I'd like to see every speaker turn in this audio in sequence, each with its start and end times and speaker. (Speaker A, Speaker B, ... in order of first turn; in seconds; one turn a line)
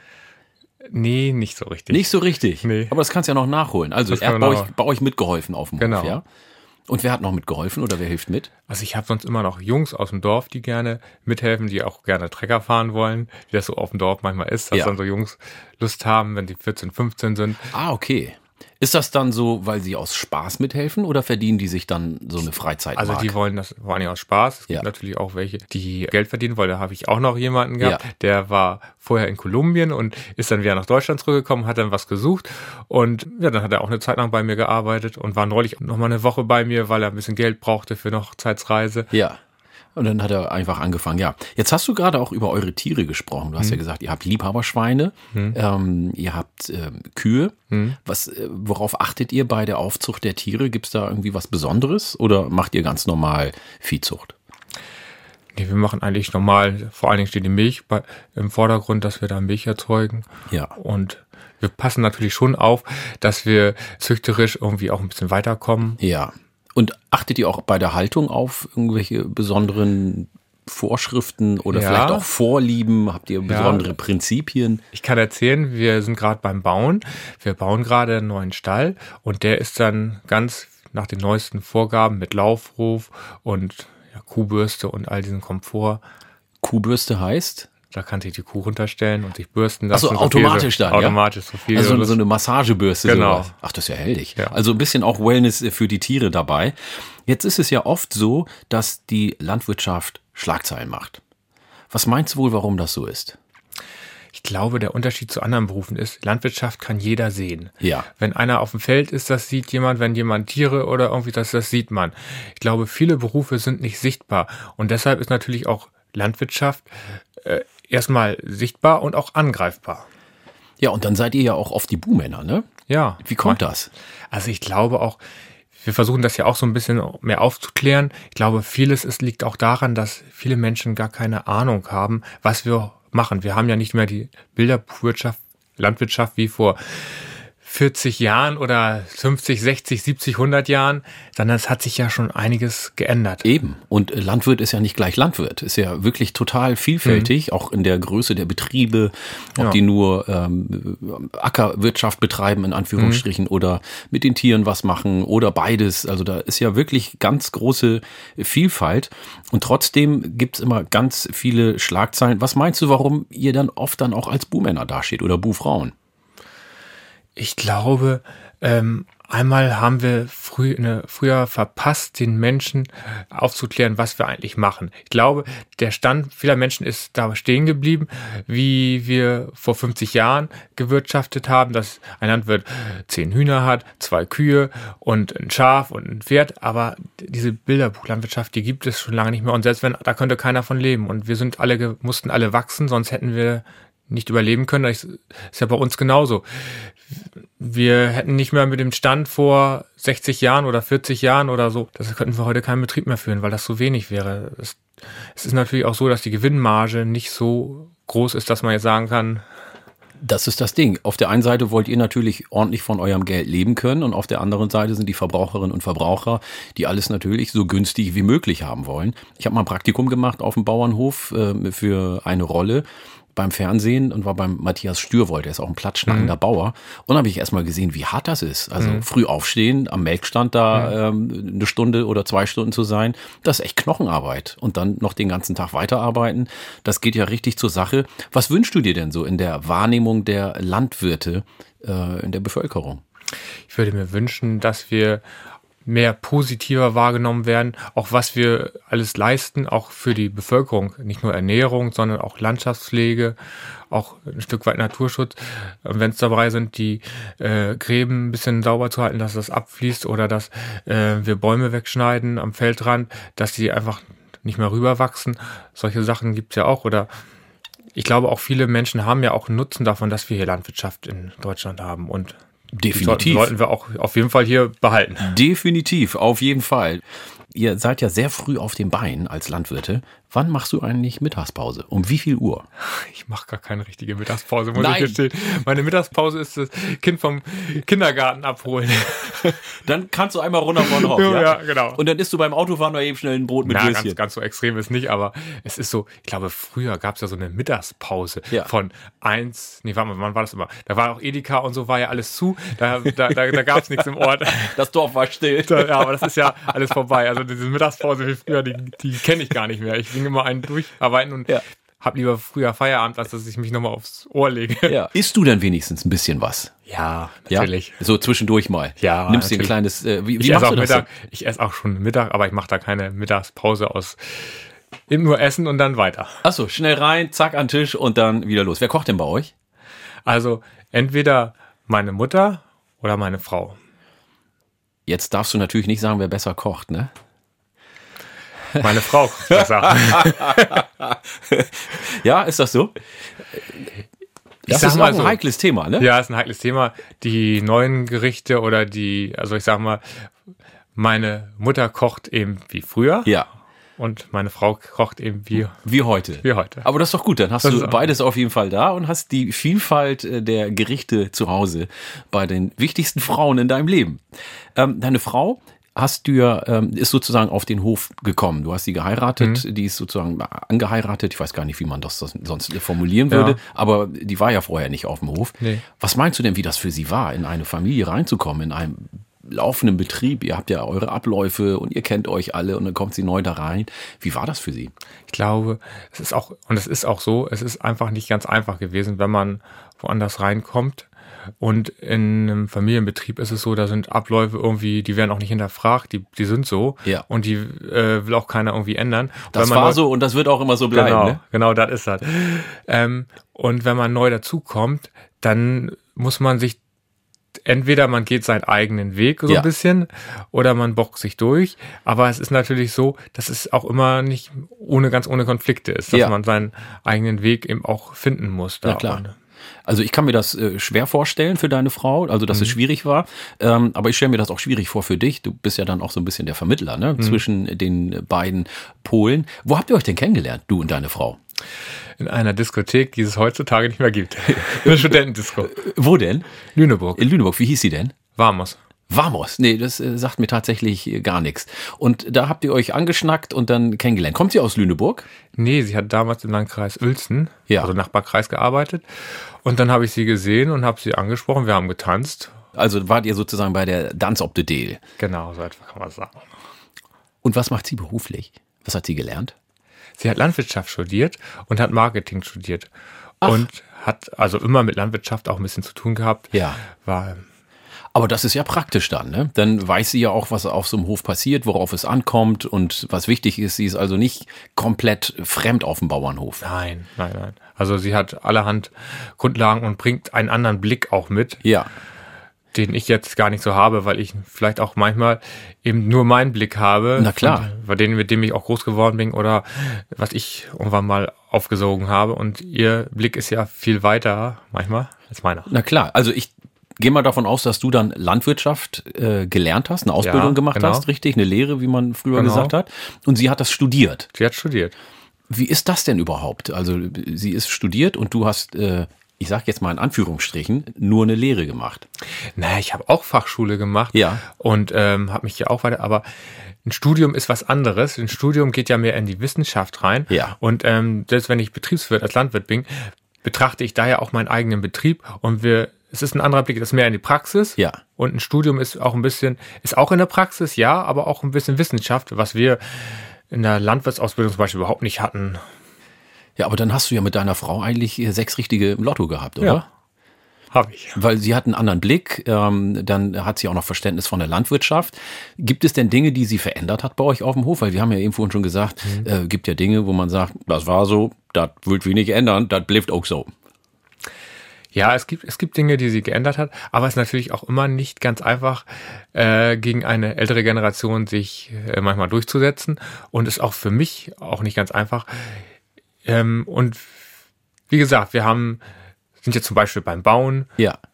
Speaker A: 0.9-2.9
Speaker B: 1.9-6.2
Speaker A: 4.1-4.7
Speaker A: 5.8-6.2
Speaker B: 6.9-8.5
Speaker A: 8.7-17.7
Speaker B: 17.7-23.3
Speaker A: 22.9-39.1
Speaker B: 39.1-39.4
Speaker B: 39.9-54.3
Speaker A: 47.7-48.0
Speaker A: 55.5-66.0
Speaker B: 60.5-60.7
Speaker B: 66.0-74.8
Speaker A: 71.7-72.2
Speaker A: 73.5-73.9
Speaker A: 74.9-86.0
Speaker B: 86.6-87.7
Speaker A: 87.9-92.2
Speaker B: 89.9-91.2
Speaker B: 91.7-101.2
Speaker A: 93.0-93.5
Speaker B: 101.9-103.4
Speaker A: 104.3-120.1
Speaker B: 107.8-108.1
Speaker B: 120.8-122.7
Speaker A: 122.9-123.6
Speaker B: 123.2-123.9
Speaker A: 124.3-125.2
Speaker A: 125.8-143.4
Speaker B: 143.4-165.9
Speaker A: 147.0-147.3
Speaker A: 153.0-153.2
Speaker A: 167.3-196.9
Speaker A: 197.6-204.8
Speaker A: 205.3-209.4
Speaker B: 210.2-243.0
Speaker A: 226.1-226.3
Speaker A: 228.8-229.1
Speaker A: 243.7-245.2
Speaker A: 245.8-253.3
Speaker A: 253.9-267.1
Speaker A: 267.9-272.4
Speaker B: 272.7-273.5
Speaker A: 272.9-275.4
Speaker B: 275.2-282.7
Speaker A: 282.8-289.7
Speaker B: 284.8-285.2
Speaker B: 289.8-294.2
Speaker A: 290.8-292.0
Speaker A: 293.6-304.8
Speaker B: 304.7-306.3
Speaker A: 305.6-315.0
Speaker B: 314.9-316.7
Speaker A: 316.9-318.0
Speaker B: 317.5-321.1
Speaker A: 319.0-319.7
Speaker A: 320.4-326.4
Speaker B: 326.4-329.5
Speaker A: 330.2-333.8
Speaker B: 335.1-337.1
Speaker A: 338.8-340.8
Speaker B: 339.5-342.9
Speaker B: 343.5-343.9
Speaker B: 344.6-346.1
Speaker A: 344.7-345.4
Speaker A: 346.0-350.3
Speaker A: 350.9-353.3
Speaker A: 354.0-355.8
Speaker B: 355.7-364.2
Speaker A: 356.4-356.8
Speaker A: 357.6-358.0
Speaker B: 364.7-384.9
Speaker A: 373.3-373.6
Speaker A: 385.3-391.1
Speaker A: 391.6-400.0
Speaker B: 399.5-401.4
Speaker A: 400.9-406.8
Speaker A: 407.6-419.3
Speaker B: 418.8-419.2
Speaker B: 419.9-431.4
Speaker A: 432.2-435.8
Speaker B: 434.6-436.5
Speaker A: 436.7-437.3
Speaker B: 437.1-438.1
Speaker A: 438.4-438.8
Speaker B: 439.1-445.2
Speaker A: 445.6-449.0
Speaker A: 449.6-452.5
Speaker B: 452.7-455.0
Speaker A: 455.2-456.4
Speaker B: 457.4-459.5
Speaker A: 460.2-462.9
Speaker A: 463.4-467.4
Speaker B: 466.5-466.8
Speaker B: 468.1-476.6
Speaker A: 476.6-481.6
Speaker B: 481.6-481.9
Speaker A: 482.7-495.7
Speaker B: 487.2-487.7
Speaker B: 495.7-504.3
Speaker A: 500.2-501.0
Speaker A: 502.3-502.7
Speaker A: 504.3-504.9
Speaker B: 505.5-512.0
Speaker A: 512.5-516.2
Speaker B: 514.1-514.4
Speaker A: 516.8-535.6
Speaker B: 520.3-520.5
Speaker B: 536.6-539.8
Speaker A: 540.7-541.2
Speaker B: 541.1-553.5
Speaker A: 554.9-565.6
Speaker A: 566.2-567.1
Speaker A: 567.9-568.8
Speaker A: 569.4-570.7